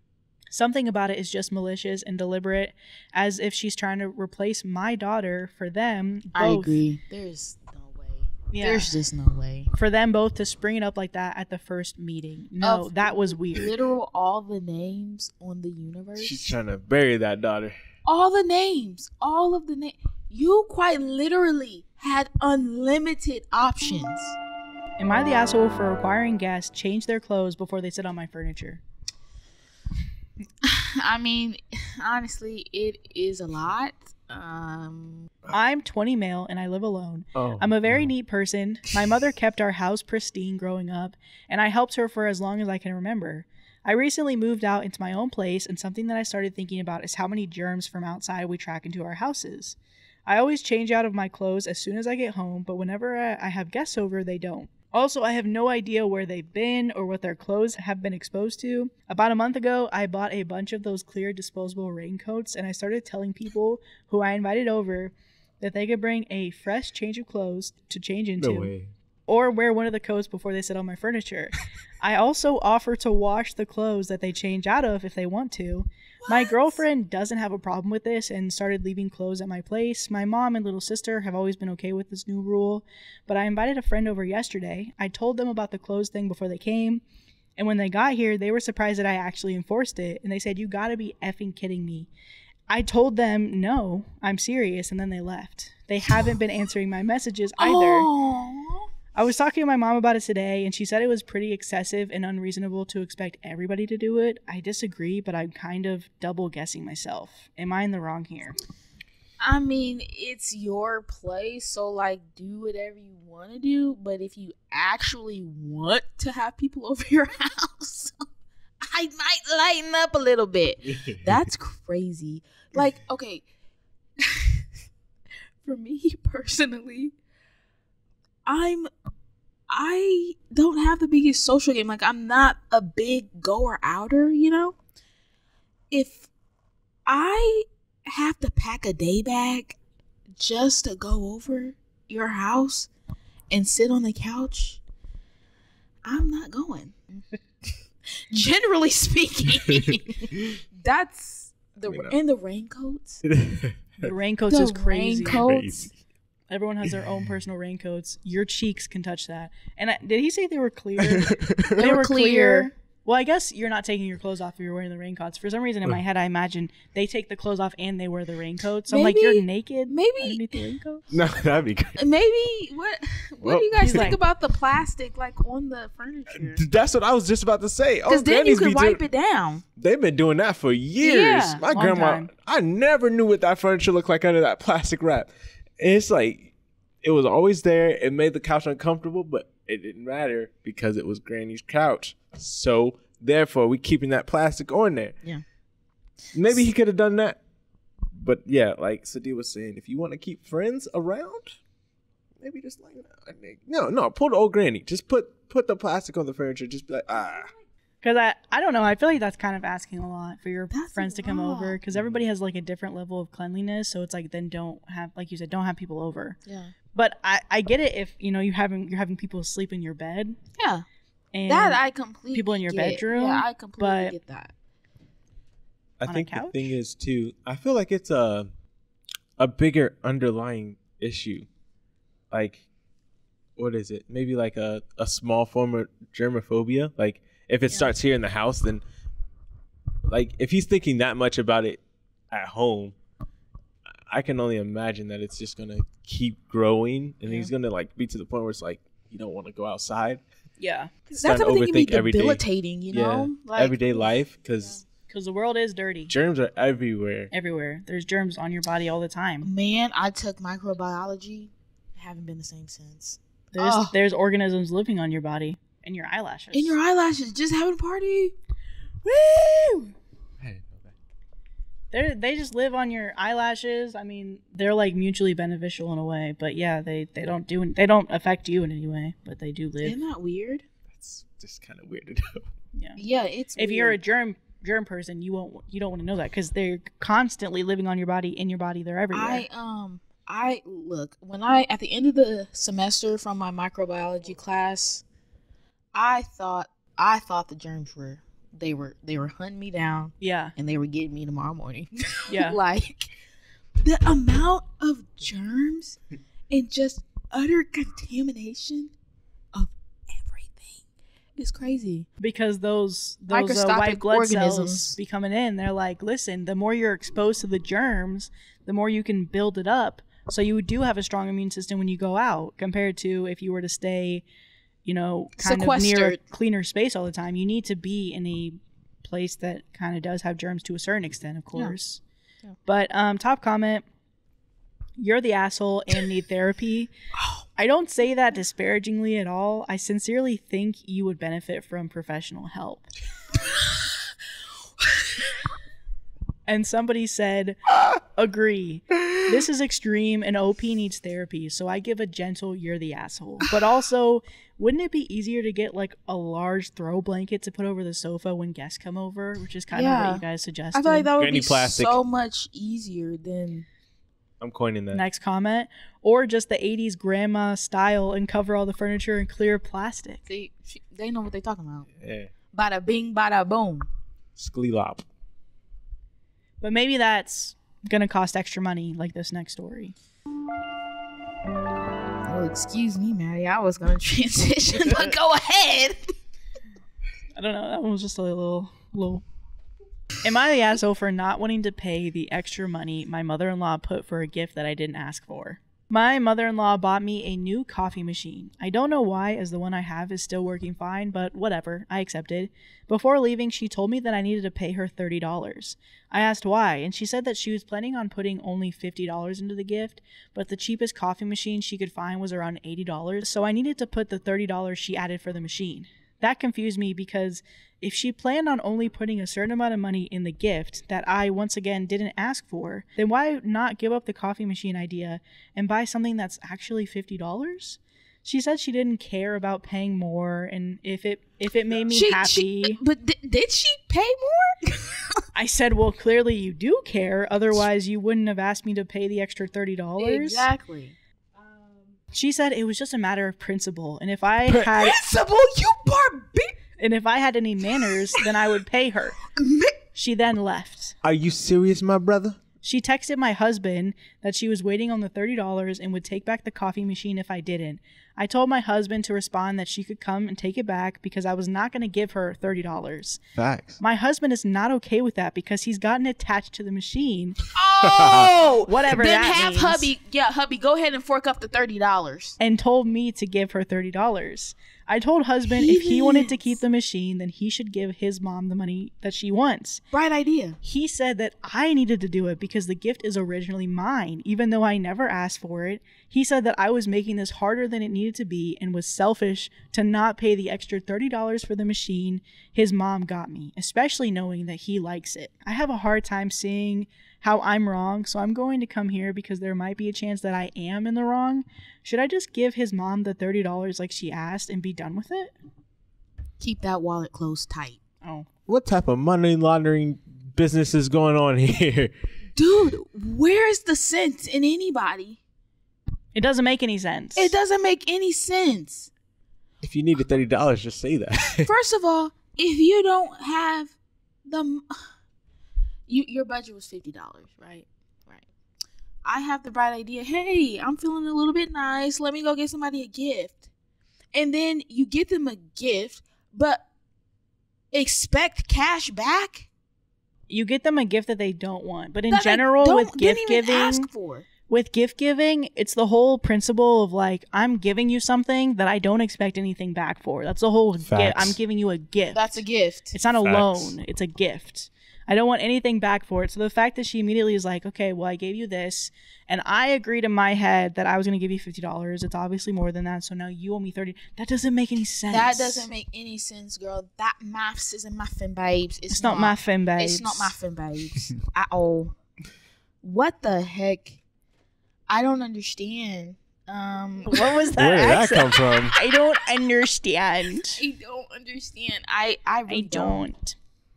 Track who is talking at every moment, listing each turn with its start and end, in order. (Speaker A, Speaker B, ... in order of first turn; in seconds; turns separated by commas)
Speaker A: 0.5-6.8, Speaker B: 6.3-9.7, Speaker A: 8.5-8.9, Speaker A: 9.7-13.7, Speaker B: 12.6-16.6, Speaker C: 16.2-17.8, Speaker B: 18.1-24.4, Speaker A: 25.0-28.8, Speaker B: 30.6-35.3, Speaker A: 35.5-68.7, Speaker C: 37.4-38.1, Speaker C: 68.4-68.9, Speaker A: 69.3-87.0, Speaker B: 76.2-76.8, Speaker A: 87.6-92.1, Speaker A: 92.7-98.1, Speaker B: 97.6-98.9, Speaker A: 99.2-108.6, Speaker B: 109.4-118.2, Speaker B: 118.8-123.4, Speaker B: 124.2-124.7, Speaker B: 125.6-127.1, Speaker B: 128.5-128.9, Speaker B: 129.7-134.8, Speaker B: 135.9-136.3, Speaker B: 137.1-139.8, Speaker B: 140.4-142.9, Speaker B: 143.5-144.8, Speaker B: 146.1-147.2, Speaker B: 148.1-153.2, Speaker C: 149.7-149.9, Speaker C: 151.9-152.1, Speaker C: 153.3-154.1, Speaker A: 154.0-155.5, Speaker B: 154.5-155.9, Speaker C: 155.3-155.9, Speaker A: 156.5-171.1, Speaker C: 161.0-161.7, Speaker B: 161.7-162.7, Speaker B: 168.9-170.6, Speaker C: 171.1-172.0, Speaker B: 171.9-176.7, Speaker C: 173.4-174.1, Speaker A: 173.8-174.2, Speaker C: 176.3-179.0, Speaker B: 178.1-179.6, Speaker C: 179.8-195.2, Speaker B: 181.0-181.6, Speaker A: 181.7-182.3, Speaker C: 196.3-197.4, Speaker C: 198.1-201.6, Speaker C: 202.4-207.5, Speaker A: 208.0-216.4, Speaker B: 210.7-211.8, Speaker C: 211.9-212.2, Speaker B: 216.5-216.7, Speaker A: 216.9-220.4, Speaker B: 220.6-220.8, Speaker A: 221.3-221.8, Speaker B: 221.5-224.5, Speaker A: 222.3-224.2, Speaker C: 226.0-228.5, Speaker A: 226.1-226.7, Speaker C: 229.4-231.5, Speaker C: 232.3-232.6, Speaker C: 233.6-238.8, Speaker C: 240.1-242.9, Speaker C: 244.1-250.2, Speaker A: 250.6-250.9, Speaker B: 251.1-254.1, Speaker C: 251.2-254.8, Speaker A: 255.1-256.1, Speaker C: 256.1-257.3, Speaker A: 257.3-259.5, Speaker B: 259.4-264.0, Speaker A: 263.6-266.8, Speaker B: 266.5-268.4, Speaker B: 269.1-269.9, Speaker C: 270.4-270.9, Speaker A: 271.9-280.0, Speaker B: 279.8-280.7, Speaker C: 280.9-282.5, Speaker A: 282.8-283.0, Speaker B: 283.0-284.0, Speaker A: 283.6-289.4, Speaker B: 289.1-295.0, Speaker B: 295.9-303.1, Speaker A: 300.2-300.5, Speaker A: 302.3-302.6, Speaker B: 303.8-306.0, Speaker B: 306.5-308.9, Speaker B: 309.5-310.8, Speaker B: 311.4-312.1, Speaker A: 312.2-324.2, Speaker B: 313.3-315.0, Speaker A: 324.9-332.0, Speaker B: 325.4-326.2, Speaker A: 332.7-333.8, Speaker A: 335.0-336.9, Speaker A: 337.6-342.9, Speaker B: 343.4-344.0, Speaker A: 346.5-361.1, Speaker B: 359.7-363.6, Speaker C: 361.2-362.0, Speaker C: 364.4-365.0, Speaker A: 364.9-370.2, Speaker B: 370.3-371.9, Speaker C: 372.0-372.3, Speaker B: 372.5-373.9, Speaker C: 374.4-375.0, Speaker A: 376.6-379.9, Speaker B: 382.2-386.1, Speaker A: 387.4-389.2, Speaker A: 390.2-432.8, Speaker B: 431.9-435.2, Speaker A: 435.4-440.5, Speaker B: 440.0-441.0, Speaker A: 442.1-445.0, Speaker B: 444.6-446.6, Speaker A: 446.8-449.2, Speaker B: 449.3-449.8, Speaker A: 449.9-451.0, Speaker C: 451.0-452.4, Speaker A: 452.6-463.2, Speaker C: 463.4-463.8, Speaker A: 463.8-467.4, Speaker B: 467.5-472.4, Speaker C: 467.9-468.2, Speaker A: 468.7-469.9, Speaker A: 472.4-479.8, Speaker B: 475.5-476.5, Speaker B: 479.9-480.6, Speaker A: 480.6-505.3, Speaker B: 506.4-507.8, Speaker C: 508.5-511.9, Speaker B: 512.4-515.2, Speaker A: 516.1-517.3, Speaker B: 517.2-518.9, Speaker C: 519.6-521.5, Speaker B: 521.4-524.8, Speaker B: 525.9-528.3, Speaker B: 529.0-533.5, Speaker B: 534.1-536.6, Speaker B: 537.7-539.5, Speaker A: 540.3-543.9, Speaker B: 542.1-544.3, Speaker A: 544.5-552.4, Speaker C: 550.9-551.4, Speaker B: 552.1-553.0, Speaker A: 552.9-565.7, Speaker C: 553.2-553.8, Speaker B: 565.1-571.9, Speaker A: 568.9-570.4, Speaker B: 572.8-574.0, Speaker B: 574.9-577.5, Speaker A: 577.1-580.6, Speaker C: 577.6-578.8, Speaker B: 580.5-583.1, Speaker A: 582.5-583.4